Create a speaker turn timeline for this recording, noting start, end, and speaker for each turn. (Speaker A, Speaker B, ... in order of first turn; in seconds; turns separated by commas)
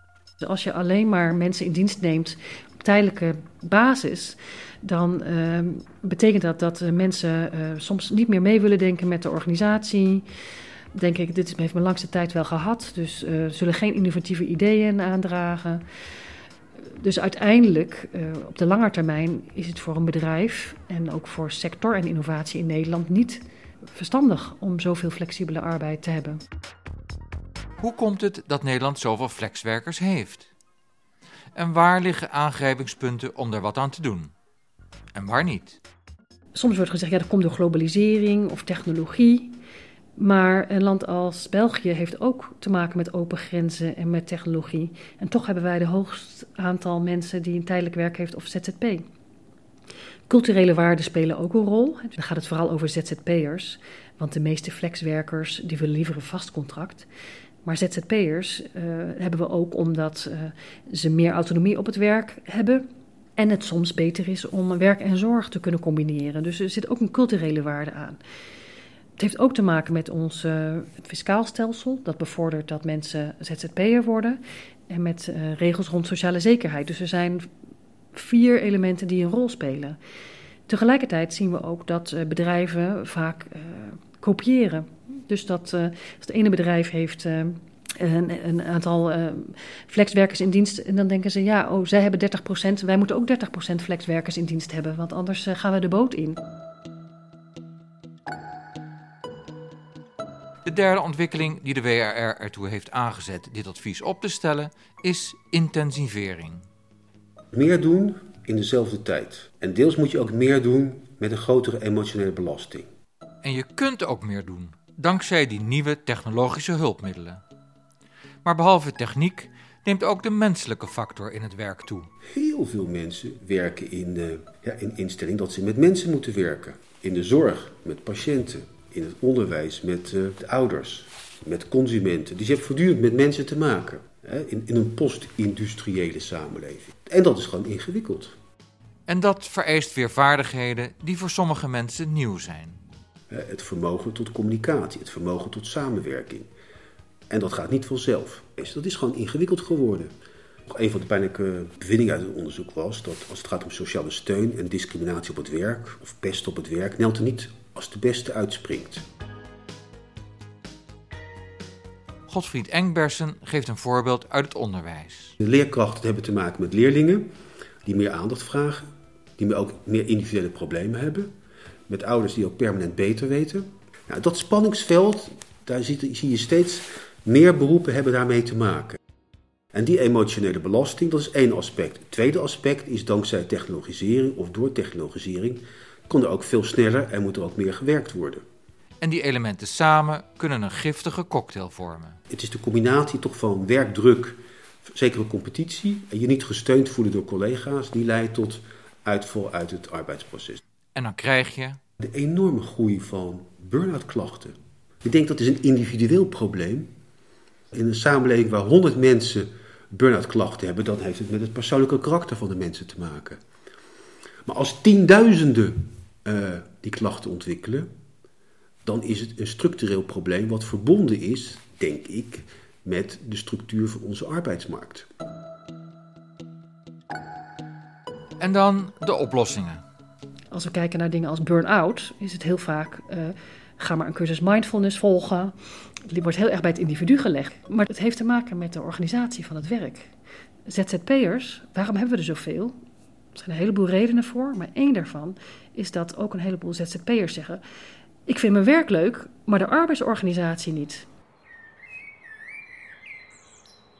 Speaker A: 0.4-10.2, Speaker A: 10.9-15.8, Speaker A: 16.9-26.4, Speaker B: 27.8-30.5, Speaker B: 31.5-34.3, Speaker B: 35.1-35.8, Speaker A: 36.5-39.5, Speaker A: 40.2-49.0, Speaker A: 50.3-57.1, Speaker A: 57.6-68.2, Speaker A: 69.2-77.5, Speaker A: 78.1-80.0, Speaker A: 80.7-96.4, Speaker B: 100.6-106.6, Speaker C: 107.5-112.9, Speaker B: 113.4-117.4, Speaker B: 118.4-122.1, Speaker C: 122.3-138.3, Speaker B: 139.1-142.8, Speaker C: 143.3-146.5, Speaker C: 147.3-150.1, Speaker C: 150.7-159.1, Speaker B: 162.3-165.3, Speaker C: 165.4-167.3, Speaker C: 167.8-171.3, Speaker C: 171.9-179.0, Speaker C: 179.7-188.4, Speaker B: 189.0-192.2, Speaker C: 192.3-200.6, Speaker B: 200.9-201.8, Speaker C: 202.0-206.9, Speaker C: 207.7-213.4, Speaker C: 214.4-217.9, Speaker C: 218.8-225.1, Speaker B: 228.4-229.8, Speaker A: 230.5-235.5, Speaker A: 236.0-240.1, Speaker A: 240.7-242.8, Speaker A: 243.3-247.6, Speaker A: 248.3-251.1